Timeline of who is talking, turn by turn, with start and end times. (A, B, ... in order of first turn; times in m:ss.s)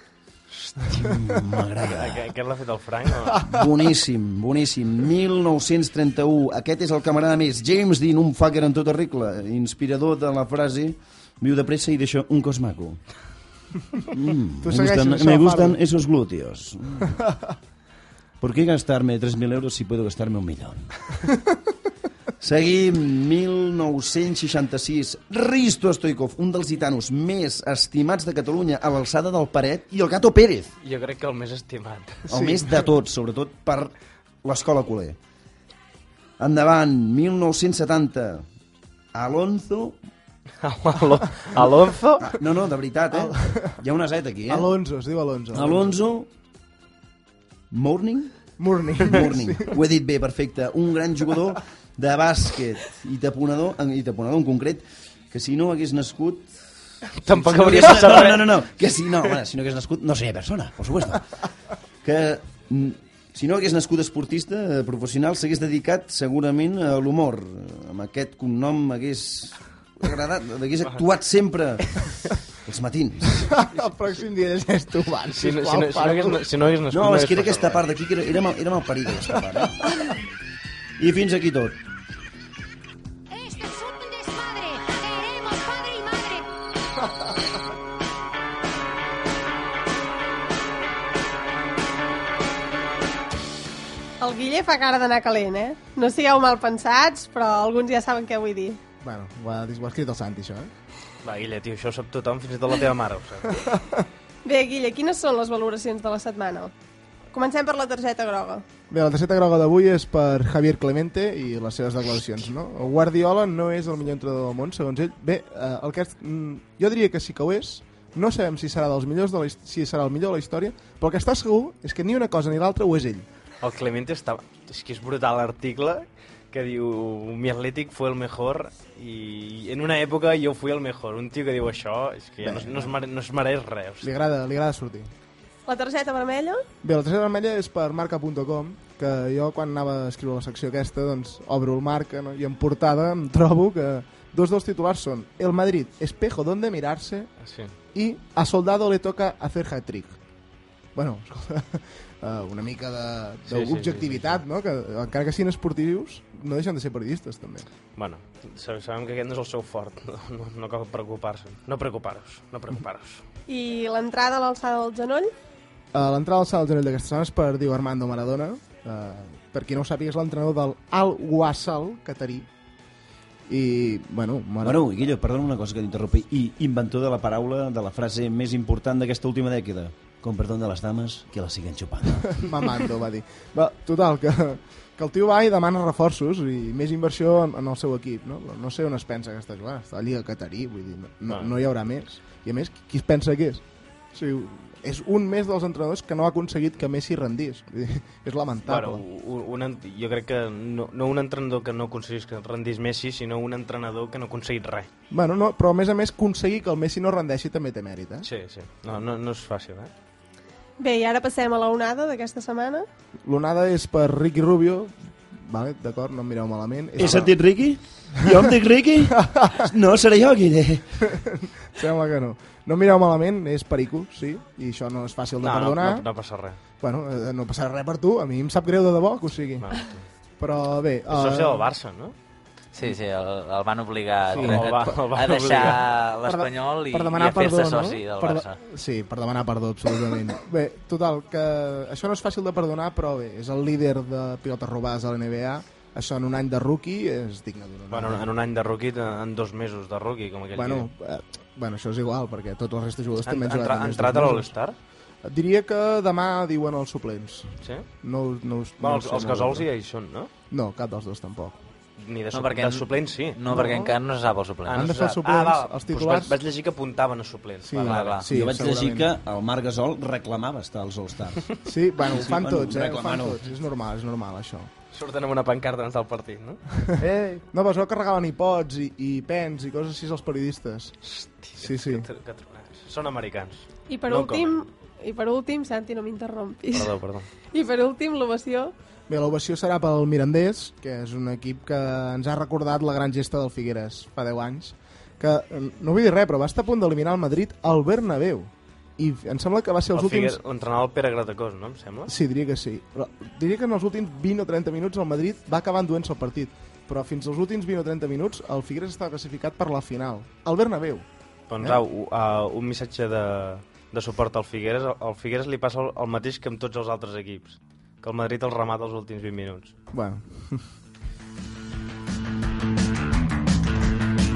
0:00.9-0:02.3 A
0:01.8-0:03.5 B
0:03.5-0:13.0 A
0:14.0-0:17.2 A
0:14.6-0:15.8 C
0:18.4-0:20.9 A
0:22.4-0:30.7 A
0:30.8-0:32.6 B
0:32.3-0:33.9 A
0:34.4-0:35.2 A
0:36.4-0:38.4 A
0:39.1-0:40.0 A
0:40.6-0:42.3 B
0:42.2-0:44.7 A
0:43.1-0:43.8 C
0:44.5-0:46.0 C
0:45.5-0:46.3 A
0:47.7-0:48.3 A
0:48.6-0:49.8 C
0:49.1-0:56.5 A
0:57.2-0:58.6 B
0:57.3-1:01.3 A
1:02.0-1:12.0 A
1:12.6-1:13.5 A
1:13.4-1:16.4 C
1:15.3-1:17.8 B
1:16.9-1:19.9 A
1:21.0-1:21.8 A
1:23.3-1:26.4 D
1:34.2-1:38.8 E
1:39.0-1:40.7 C
1:41.2-1:43.6 B
1:43.5-1:44.1 C
1:44.5-1:46.7 E
1:47.3-1:48.6 E
1:48.9-2:03.3 C
2:03.6-2:14.1 B
2:12.4-2:13.0 C
2:14.0-2:15.1 C
2:15.7-2:16.6 E
2:16.8-2:27.3 C
2:27.4-2:27.7 B
2:27.9-2:30.2 C
2:31.0-2:37.7 C
2:33.5-2:34.4 B
2:38.0-2:43.2 B
2:43.5-2:45.3 E
2:45.9-2:52.5 C
2:53.5-2:54.8 C
2:54.6-3:02.4 A
3:02.3-3:19.0 C
3:18.7-3:24.9 B
3:25.1-3:28.3 C
3:28.2-3:29.9 B
3:30.8-3:32.9 E
3:33.2-3:37.3 C
3:37.0-3:41.0 A
3:39.1-3:39.6 C
3:41.1-3:46.1 C
3:45.4-3:46.6 B
3:46.8-3:49.8 C
3:49.6-3:50.0 B
3:50.4-3:51.7 C
3:51.1-3:52.2 B
3:52.8-3:58.6 F
3:54.3-3:55.0 C
3:54.4-3:55.8 B
3:55.5-3:55.7 C
3:56.2-4:08.3 C
4:07.9-4:10.9 B
4:10.6-4:14.5 C
4:13.2-4:14.8 B
4:15.2-4:19.7 C
4:18.8-4:20.3 B
4:20.5-4:21.6 C
4:22.0-4:23.7 B
4:22.3-4:24.8 F
4:23.5-4:23.9 C
4:24.7-4:28.2 B
4:24.7-4:26.4 C
4:27.6-4:29.1 C
4:27.8-4:28.3 F
4:28.3-4:31.5 A
4:31.6-4:34.7 C
4:32.0-4:33.4 A
4:34.9-4:37.4 B
4:37.5-4:41.0 C
4:41.1-4:44.6 B
4:41.6-4:42.1 C
4:43.9-4:47.0 E
4:46.7-4:47.3 B
4:47.5-4:48.7 E
4:49.1-5:00.4 C
5:00.0-5:02.1 B
5:02.1-5:11.0 C
5:11.5-5:19.7 B
5:19.9-5:20.6 C